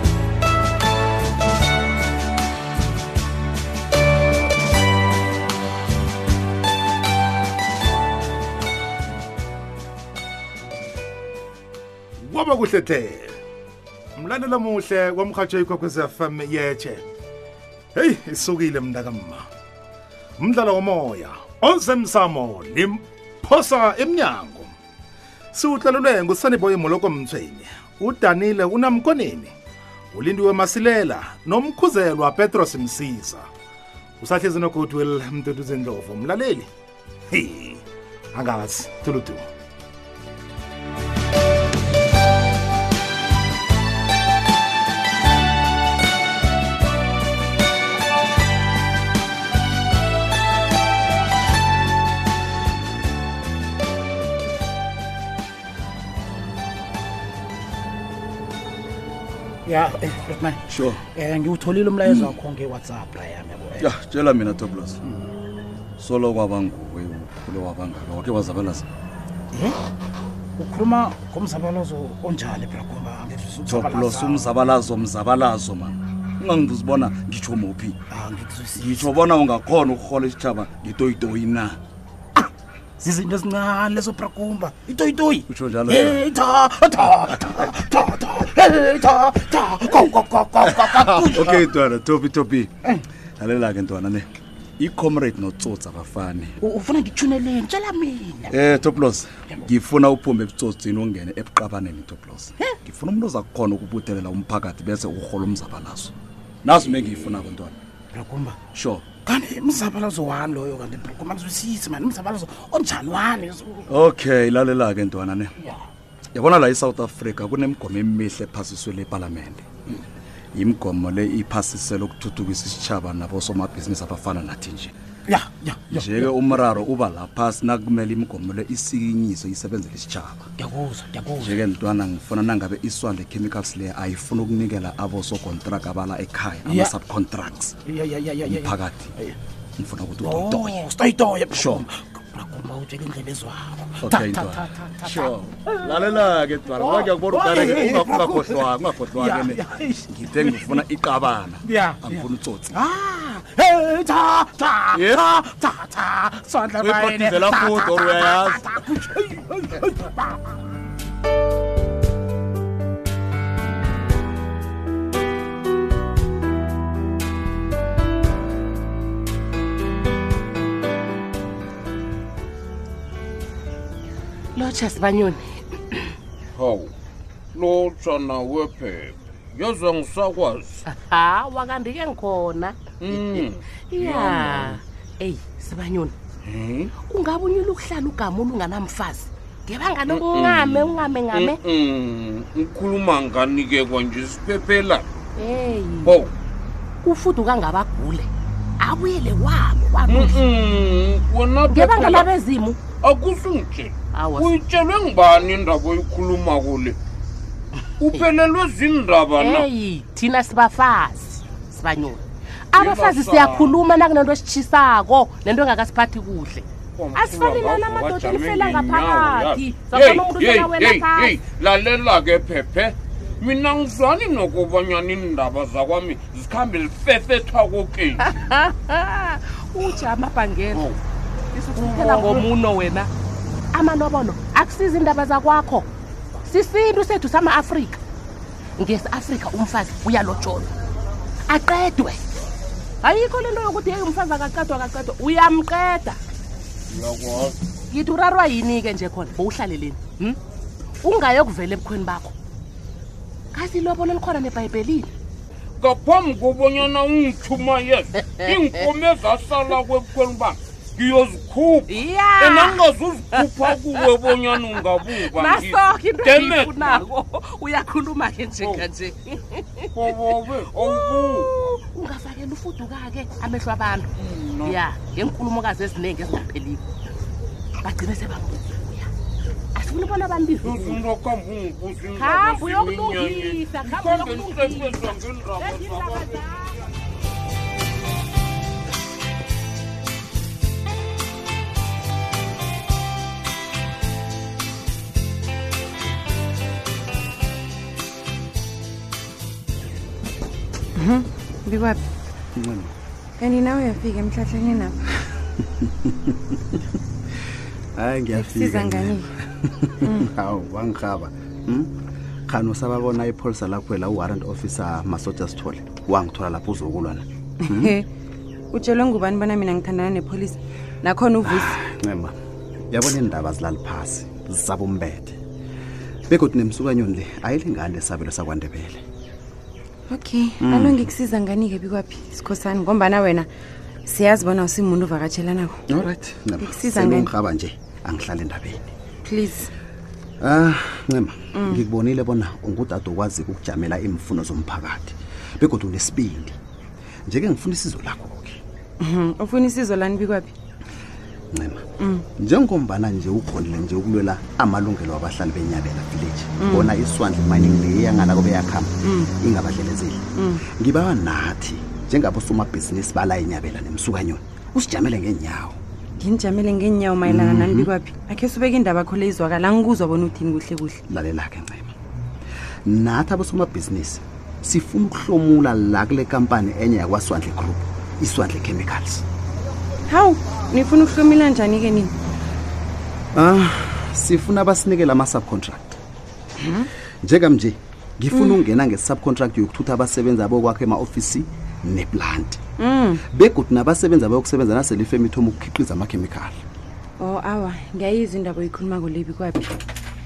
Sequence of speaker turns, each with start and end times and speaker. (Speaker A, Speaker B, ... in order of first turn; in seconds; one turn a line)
Speaker A: 12.2-13.3
Speaker A: 14.2-17.0
Speaker A: 17.9-19.5
Speaker A: 20.4-24.7
Speaker A: 25.5-29.5
Speaker A: 30.1-33.5
Speaker A: 34.2-36.7
Speaker A: 37.3-37.8
Speaker A: 38.4-39.4
Speaker B: 59.7-63.9
Speaker C: 60.7-61.0
Speaker C: 62.0-62.4
Speaker C: 63.8-65.0
Speaker C: 66.0-68.9
Speaker B: 69.5-69.8
Speaker B: 70.6-74.5
Speaker C: 73.7-78.0
Speaker B: 78.1-79.1
Speaker C: 78.8-81.8
Speaker B: 83.0-91.7
Speaker C: 85.5-86.3
Speaker C: 90.6-92.7
Speaker C: 93.4-94.3
Speaker C: 94.8-96.5
Speaker B: 96.6-98.8
Speaker C: 98.5-106.1
Speaker C: 106.6-107.8
Speaker B: 108.1-113.9
Speaker C: 108.7-109.1
Speaker C: 113.9-115.5
Speaker C: 116.3-119.7
Speaker C: 120.5-124.9
Speaker B: 125.3-126.3
Speaker C: 125.9-130.5
Speaker B: 130.6-131.6
Speaker C: 131.4-137.8
Speaker B: 136.7-137.0
Speaker B: 137.8-139.4
Speaker C: 138.4-139.1
Speaker C: 139.8-140.8
Speaker B: 140.2-150.9
Speaker C: 141.5-141.9
Speaker C: 144.0-152.8
Speaker B: 151.6-160.6
Speaker C: 154.9-155.4
Speaker C: 156.8-158.7
Speaker D: 174.6-176.1
Speaker E: 176.6-176.9
Speaker E: 177.5-180.8
Speaker D: 180.9-186.2
Speaker E: 183.0-184.8
Speaker E: 186.4-186.9
Speaker D: 187.1-191.6
Speaker E: 190.1-195.1
Speaker D: 195.4-196.2
Speaker E: 196.1-196.3
Speaker D: 197.0-198.3
Speaker D: 198.8-200.5
Speaker E: 200.1-202.3
Speaker D: 201.7-202.8
Speaker E: 203.0-207.0
Speaker D: 204.1-204.6
Speaker E: 208.0-209.7
Speaker D: 209.4-221.4
Speaker E: 212.8-213.8
Speaker E: 217.0-228.2
Speaker D: 228.2-230.9
Speaker D: 231.5-233.1
Speaker E: 231.8-232.5
Speaker D: 233.7-235.9
Speaker D: 236.4-238.0
Speaker D: 238.8-240.7
Speaker D: 241.5-242.2
Speaker D: 243.0-246.2
Speaker E: 246.9-247.6
Speaker D: 247.9-250.4
Speaker D: 251.0-252.3
Speaker D: 253.5-255.1
Speaker E: 255.8-267.1
Speaker D: 258.2-258.7
Speaker D: 261.9-270.0
Speaker E: 268.6-268.9
Speaker E: 269.9-271.5
Speaker D: 270.7-274.1
Speaker E: 274.2-274.8
Speaker D: 274.6-276.9
Speaker D: 277.8-279.1
Speaker D: 279.8-281.1
Speaker E: 280.6-286.6
Speaker D: 282.1-286.9
Speaker F: 301.0-302.0
Speaker G: 302.6-302.9
Speaker F: 303.4-305.0
Speaker G: 305.8-306.8
Speaker G: 308.0-311.9
Speaker F: 308.3-309.3
Speaker G: 312.5-317.9
Speaker F: 317.6-318.1
Speaker F: 318.7-321.8
Speaker G: 321.4-322.4
Speaker G: 322.9-325.4
Speaker G: 326.3-329.0
Speaker F: 330.1-333.5
Speaker G: 330.6-331.1
Speaker F: 334.1-335.8
Speaker G: 335.9-338.9
Speaker F: 336.6-337.3
Speaker F: 339.2-339.7
Speaker G: 340.4-346.6
Speaker F: 341.6-341.8
Speaker G: 347.3-348.6
Speaker F: 349.0-350.5
Speaker G: 351.5-351.8
Speaker F: 352.0-352.3
Speaker G: 352.4-365.8
Speaker F: 356.6-356.9
Speaker F: 359.0-359.3
Speaker F: 360.4-360.6
Speaker F: 366.2-371.0
Speaker G: 367.2-367.9
Speaker G: 371.1-371.9
Speaker G: 372.9-379.2
Speaker F: 380.1-382.1
Speaker G: 383.3-385.9
Speaker F: 386.6-386.9
Speaker G: 387.2-392.6
Speaker F: 388.3-388.6
Speaker F: 392.8-393.2
Speaker G: 393.3-396.6
Speaker F: 397.2-399.8